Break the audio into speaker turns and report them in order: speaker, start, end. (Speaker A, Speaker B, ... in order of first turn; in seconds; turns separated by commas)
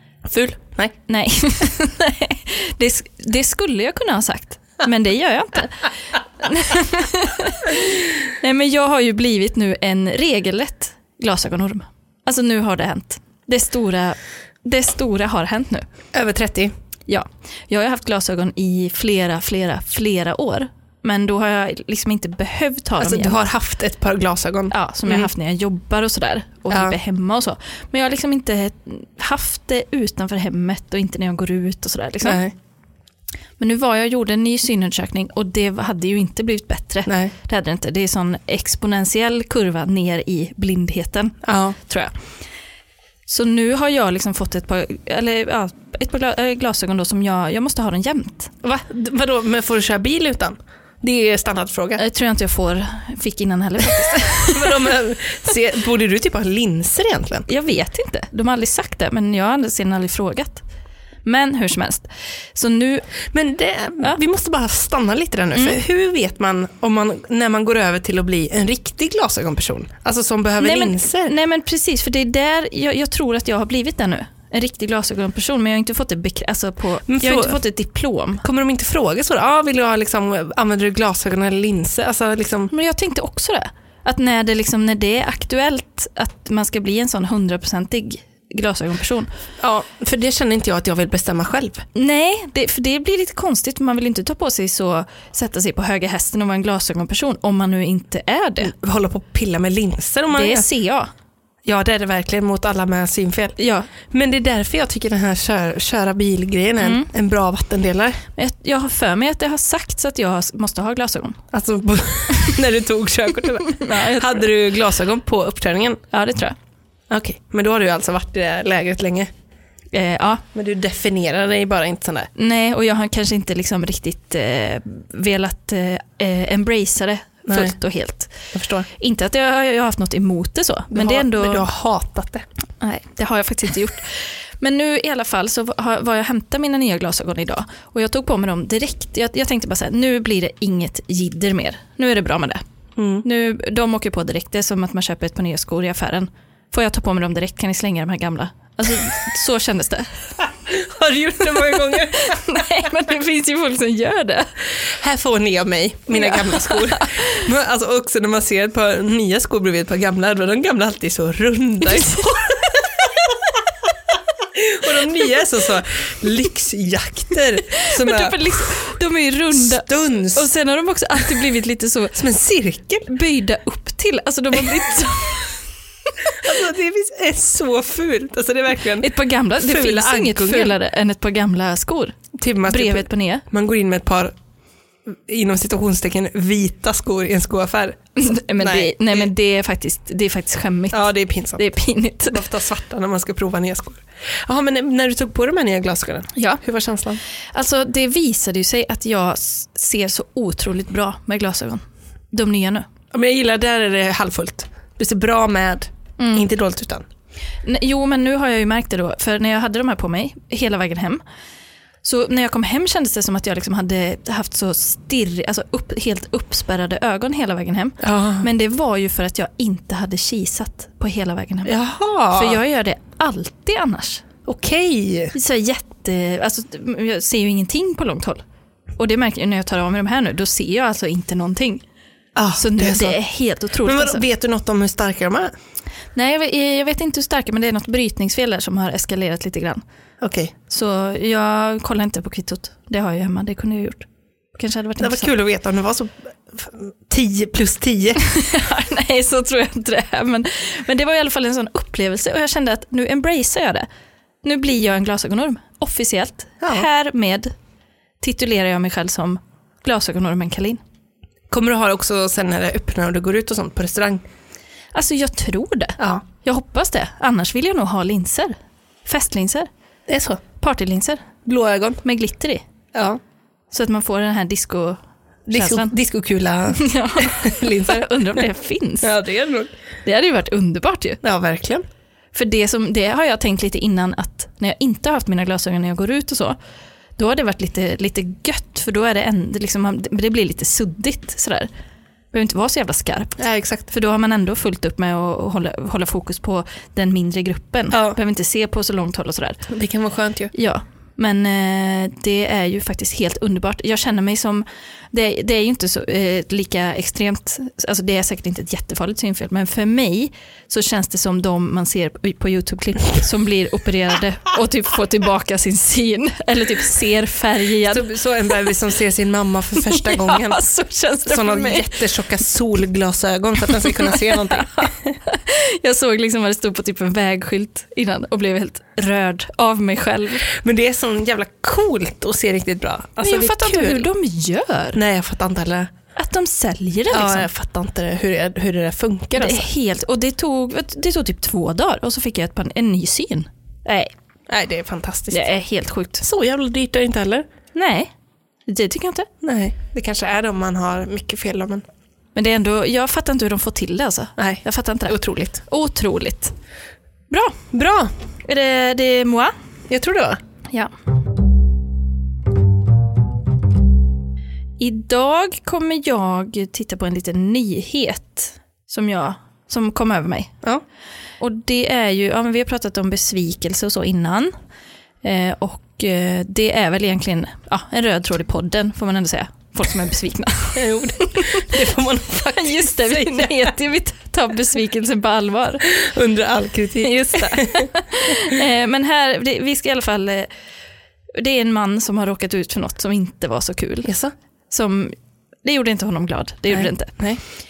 Speaker A: 0.2-0.9, Speaker B: 1.1-15.8, Speaker A: 16.1-16.7, Speaker B: 17.1-23.4, Speaker A: 23.0-25.3, Speaker B: 24.7-32.4, Speaker A: 26.7-26.9, Speaker A: 32.2-32.5, Speaker B: 33.6-42.1, Speaker A: 37.0-37.3, Speaker A: 41.4-41.8, Speaker B: 43.3-48.5, Speaker A: 48.6-52.0, Speaker B: 52.0-54.9, Speaker A: 54.4-57.5, Speaker B: 57.5-60.6, Speaker B: 61.2-63.1, Speaker A: 63.3-71.3, Speaker B: 70.6-78.4, Speaker A: 77.1-77.6, Speaker A: 78.4-82.7, Speaker B: 82.7-89.3, Speaker A: 89.6-91.8, Speaker B: 91.9-98.7, Speaker A: 98.6-100.7, Speaker B: 100.3-101.1, Speaker A: 101.6-108.2, Speaker B: 103.6-103.9, Speaker B: 106.8-107.1, Speaker B: 108.4-111.4, Speaker A: 111.5-116.0, Speaker B: 113.7-114.5, Speaker B: 116.1-116.5, Speaker A: 117.1-119.3, Speaker B: 119.9-120.4, Speaker A: 120.5-122.3, Speaker B: 122.3-131.7, Speaker A: 127.5-127.8, Speaker A: 128.5-128.9, Speaker A: 130.9-132.4, Speaker B: 132.8-142.6, Speaker A: 143.0-143.2, Speaker B: 143.2-150.1, Speaker A: 150.7-152.4, Speaker B: 152.1-154.5, Speaker A: 155.0-162.8, Speaker B: 156.1-157.4, Speaker B: 161.9-162.3, Speaker A: 164.5-168.7, Speaker B: 167.8-172.2, Speaker A: 169.5-170.5, Speaker A: 172.1-173.1, Speaker B: 173.1-175.6, Speaker A: 176.4-180.8, Speaker B: 179.0-183.4, Speaker A: 182.3-184.3, Speaker A: 185.1-189.3, Speaker B: 188.2-192.4, Speaker A: 190.9-191.7, Speaker A: 192.2-197.2, Speaker B: 196.3-196.6, Speaker B: 197.5-202.9, Speaker A: 203.1-207.1, Speaker B: 206.2-206.5, Speaker B: 207.6-211.2, Speaker B: 212.0-221.7, Speaker A: 218.0-218.5, Speaker A: 221.6-222.6, Speaker B: 222.3-224.2, Speaker A: 224.4-225.3, Speaker B: 225.3-228.4, Speaker B: 229.0-231.8, Speaker A: 232.3-233.2, Speaker B: 232.6-234.2, Speaker A: 233.8-235.5, Speaker B: 236.1-239.8, Speaker A: 240.2-240.5, Speaker B: 240.7-245.3, Speaker A: 245.0-248.2, Speaker B: 248.3-253.9, Speaker B: 254.4-257.5, Speaker A: 256.6-256.9, Speaker B: 258.2-260.8, Speaker A: 261.5-264.2, Speaker B: 264.9-269.7, Speaker A: 266.0-266.2, Speaker A: 270.1-270.4, Speaker B: 270.6-271.3, Speaker A: 271.4-272.0, Speaker B: 272.0-272.6, Speaker A: 272.9-273.2, Speaker B: 273.7-275.0, Speaker A: 275.5-278.4, Speaker B: 275.5-275.9, Speaker B: 276.8-279.1, Speaker A: 279.0-279.7, Speaker B: 280.0-281.2, Speaker A: 281.2-281.8, Speaker B: 282.3-286.6, Speaker B: 287.2-291.7, Speaker B: 292.3-293.4, Speaker A: 293.4-293.9, Speaker B: 293.9-299.6, Speaker A: 297.9-298.2, Speaker A: 299.7-300.5, Speaker B: 300.5-318.1, Speaker A: 317.9-320.6, Speaker B: 319.8-322.0, Speaker A: 321.2-324.9, Speaker B: 323.8-330.5, Speaker A: 330.5-334.1, Speaker B: 333.2-335.0, Speaker A: 334.9-335.9, Speaker B: 336.1-337.5, Speaker A: 337.1-339.6, Speaker B: 339.4-344.1, Speaker A: 344.5-345.4, Speaker B: 345.3-346.2, Speaker A: 346.2-347.5, Speaker B: 347.7-348.1, Speaker B: 348.7-349.3, Speaker A: 349.4-351.8, Speaker B: 352.3-356.5, Speaker A: 354.4-355.6, Speaker B: 357.3-357.6, Speaker A: 357.7-358.1, Speaker B: 358.4-359.5, Speaker A: 359.9-360.4, Speaker B: 364.8-370.5, Speaker B: 371.4-374.5, Speaker B: 375.2-380.8, Speaker A: 380.7-383.7, Speaker B: 381.3-381.6, Speaker B: 382.5-385.9, Speaker A: 385.9-387.9, Speaker B: 387.0-390.5, Speaker B: 391.3-394.1, Speaker A: 394.0-394.3, Speaker B: 394.7-397.2, Speaker A: 396.7-397.4